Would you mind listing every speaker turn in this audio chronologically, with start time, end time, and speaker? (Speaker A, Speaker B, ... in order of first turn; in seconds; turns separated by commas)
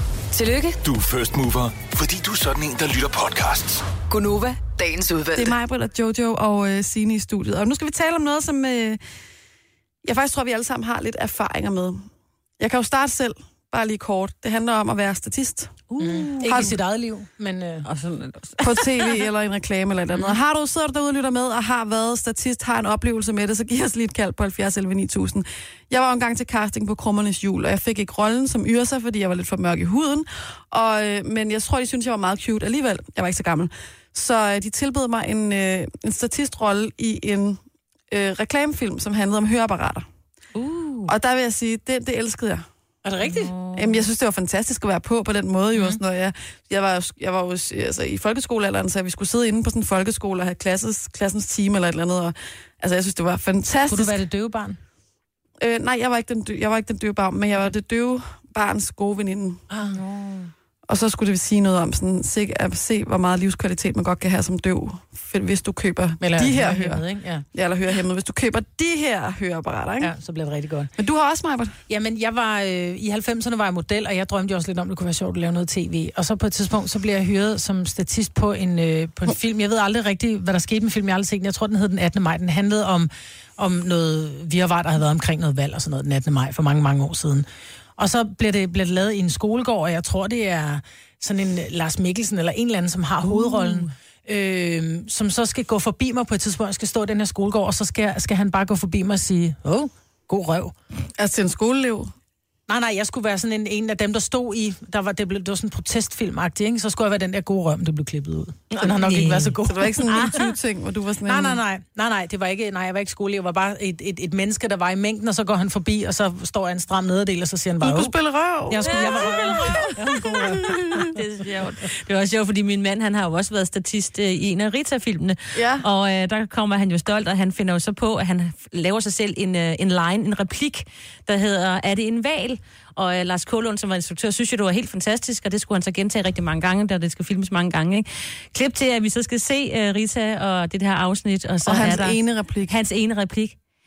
Speaker A: 0.3-0.8, Speaker B: 0.8-3.9, Speaker A: 4.1-5.5, Speaker C: 5.3-9.0, Speaker C: 10.0-12.1, Speaker C: 12.6-15.8, Speaker D: 15.9-16.7, Speaker E: 16.0-17.9, Speaker D: 17.8-19.2, Speaker C: 18.6-40.0, Speaker D: 40.5-41.1, Speaker C: 41.1-42.6, Speaker E: 43.0-43.5, Speaker D: 43.2-44.0, Speaker C: 43.7-54.2, Speaker E: 53.9-54.8, Speaker C: 55.6-59.6, Speaker E: 59.7-60.0, Speaker D: 59.9-60.5, Speaker C: 60.9-70.1, Speaker E: 66.2-67.4, Speaker E: 70.0-70.9, Speaker C: 71.0-71.8, Speaker E: 71.9-87.5, Speaker E: 88.0-100.7, Speaker D: 93.3-93.9, Speaker C: 101.2-102.1, Speaker E: 102.7-110.5, Speaker D: 108.7-109.5, Speaker C: 109.7-111.6, Speaker E: 111.2-118.1, Speaker C: 117.8-119.9, Speaker E: 118.7-120.8, Speaker D: 118.9-143.5, Speaker C: 125.5-125.8, Speaker C: 141.7-142.7